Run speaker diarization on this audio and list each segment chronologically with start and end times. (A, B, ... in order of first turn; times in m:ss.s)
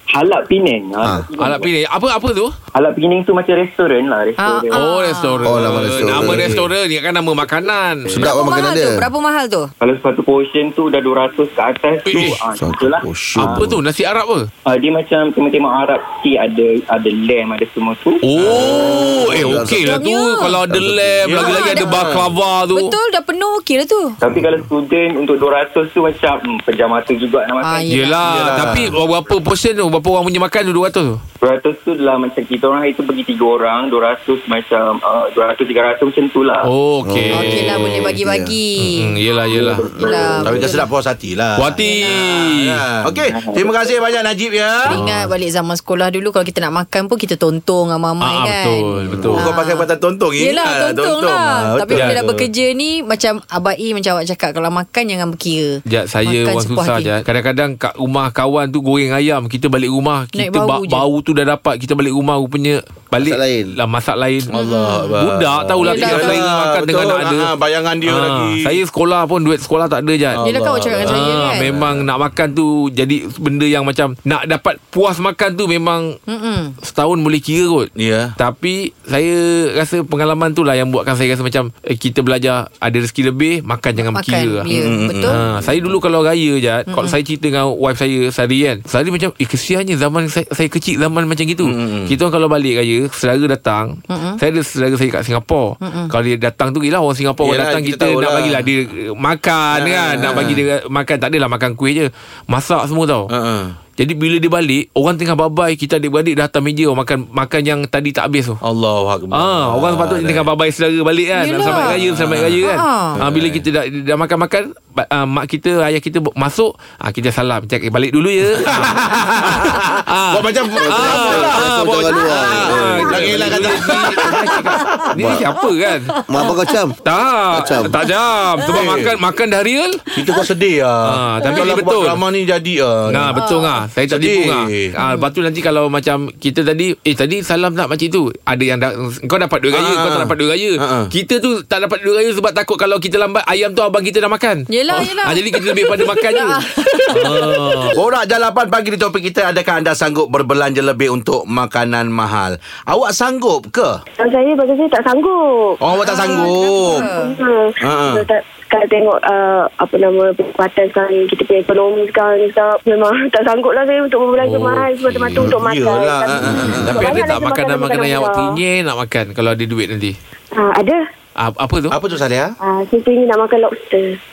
0:00.1-0:01.7 A
0:01.4-0:02.5 B
0:02.7-0:04.8 A
0:04.4-0:05.4 C
0:04.7-0:08.2 B
0:05.4-0:06.5 D
0:05.8-0:06.6 E
0:08.1-0:09.0 D
0:08.2-0:09.7 C
0:09.8-0:13.6 A
0:12.0-0:12.4 B
0:12.6-0:13.8 D
0:13.4-0:14.5 B
0:14.6-0:18.2 A
0:18.2-0:22.9 B
0:18.4-0:19.7 E
0:18.4-0:19.9 D
0:19.8-0:20.6 C
0:20.7-0:21.2 D
0:21.2-0:22.2 E
0:21.3-0:21.9 C
0:22.7-0:24.2 C
0:24.2-0:27.9 A
0:27.6-0:28.2 C
0:27.9-0:31.2 B
0:28.2-0:29.0 E
0:31.4-0:36.7 A
0:36.6-0:38.1 B
0:37.0-0:38.6 D
0:37.3-0:39.1 C
0:38.8-0:39.9 B
0:39.5-0:40.6 A
0:39.9-0:40.4 D
0:39.9-0:40.9 C
0:40.4-0:45.0 E
0:41.6-0:42.8 B
0:41.8-0:42.2 C
0:43.3-0:43.9 A
0:44.9-0:49.8 C
0:48.2-0:49.5 B
0:49.1-0:52.4 E
0:50.4-0:57.1 C
0:51.9-0:52.2 B
0:55.9-1:04.5 B
1:00.3-1:01.0 C
1:03.2-1:03.7 D
1:04.5-1:08.8 E
1:04.5-1:05.1 C
1:05.2-1:07.5 B
1:05.8-1:06.4 C
1:08.0-1:10.4 B
1:10.3-1:12.1 E
1:10.4-1:11.7 C
1:11.0-1:16.1 B
1:16.3-1:16.7 C
1:16.8-1:24.7 B
1:18.0-1:18.3 E
1:24.1-1:25.4 C
1:24.7-1:25.7 E
1:25.2-1:43.3 B
1:26.9-1:27.1 C
1:31.6-1:32.1 E
1:34.1-1:34.4 C
1:35.8-1:36.1 C
1:37.4-1:38.6 E
1:39.7-1:40.6 E
1:43.3-1:43.7 E
1:44.0-1:48.6 B
1:48.6-1:50.5 E
1:49.3-2:06.1 B
1:51.4-1:52.0 C
1:51.6-1:52.6 E
1:52.6-1:53.2 C
1:53.2-1:53.6 E
1:58.5-2:04.3 E
2:00.8-2:04.0 D
2:05.1-2:05.4 D
2:06.1-2:06.5 C
2:06.3-2:07.0 D
2:07.0-2:10.0 B
2:07.5-2:08.0 D
2:08.7-2:09.1 E
2:10.1-2:13.4 E
2:11.0-2:12.2 B
2:13.1-2:28.0 B
2:13.3-2:13.8 C
2:14.1-2:14.9 E
2:15.0-2:15.3 C
2:19.7-2:21.1 E
2:24.7-2:27.9 C
2:27.9-2:34.0 E
2:34.2-2:48.6 F
2:35.8-2:37.1 E
2:36.0-2:37.4 C
2:37.8-2:38.2 E
2:44.4-2:45.5 B
2:45.3-2:47.2 E
2:46.5-2:50.1 B
2:50.5-2:51.0 F
2:51.4-2:52.0 B
2:51.9-2:52.5 E
2:52.6-2:54.2 F